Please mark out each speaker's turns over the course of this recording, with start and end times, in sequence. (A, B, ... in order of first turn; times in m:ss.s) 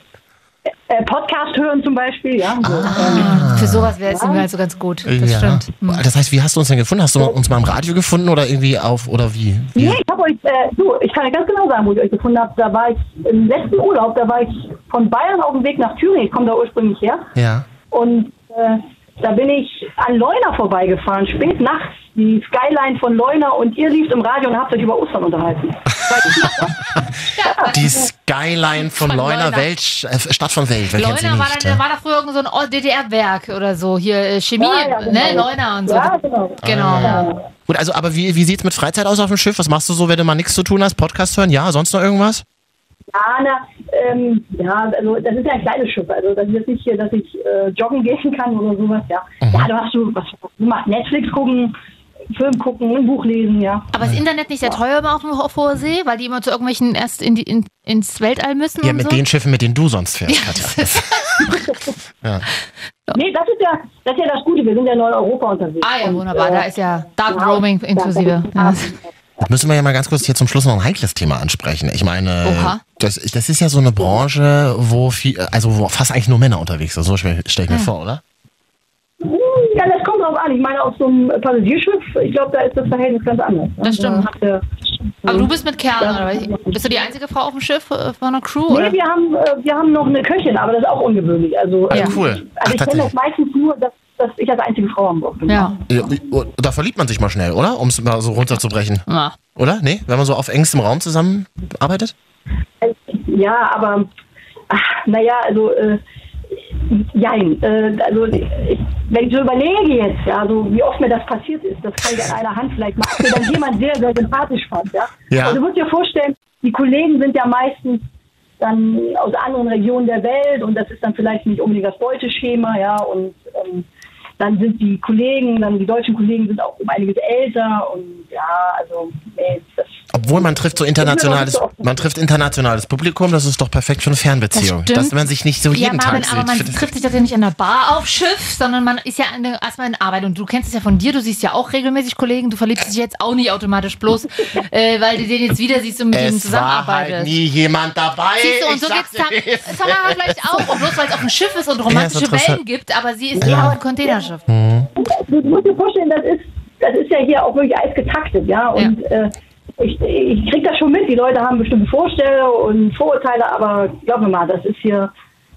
0:00.9-0:04.5 A
0:02.6-0:03.9 B
0:02.8-0:06.0 C
0:05.0-0:10.0 B
0:09.8-0:17.3 A
0:17.4-0:17.7 B
0:17.9-0:26.8 A
0:26.4-0:28.0 C
0:27.4-0:28.0 A
0:27.7-0:31.8 B
0:28.8-0:29.7 C
0:31.0-0:37.3 C
0:34.6-0:37.4 A
0:36.6-0:42.4 B
0:43.1-0:51.8 A
0:49.4-0:49.7 B
0:52.3-0:53.9 A
0:53.9-0:59.2 C
0:58.8-1:01.2 B
1:00.3-1:01.6 C
1:03.1-1:06.7 A
1:05.8-1:09.0 C
1:07.2-1:09.0 A
1:09.4-1:18.2 B
1:12.4-1:12.8 C
1:19.2-1:27.1 A
1:23.8-1:24.3 C
1:25.3-1:29.0 C
1:28.7-1:35.9 A
1:31.9-1:33.1 B
1:35.5-1:35.8 C
1:35.9-1:39.0 B
1:39.1-1:39.4 C
1:39.6-1:42.1 B
1:42.8-1:44.1 A
1:44.7-1:46.0 A
1:46.8-1:58.1 A
1:55.3-1:55.6 B
1:58.6-2:03.9 A
2:04.4-2:12.0 A
2:10.1-2:16.9 B
2:14.5-2:15.2 C
2:15.7-2:27.4 C
2:26.1-2:31.0 B
2:28.4-2:34.4 C
2:31.9-2:32.6 B
2:33.4-2:34.2 A
2:33.4-2:33.8 B
2:34.5-2:34.9 B
2:35.0-2:45.1 A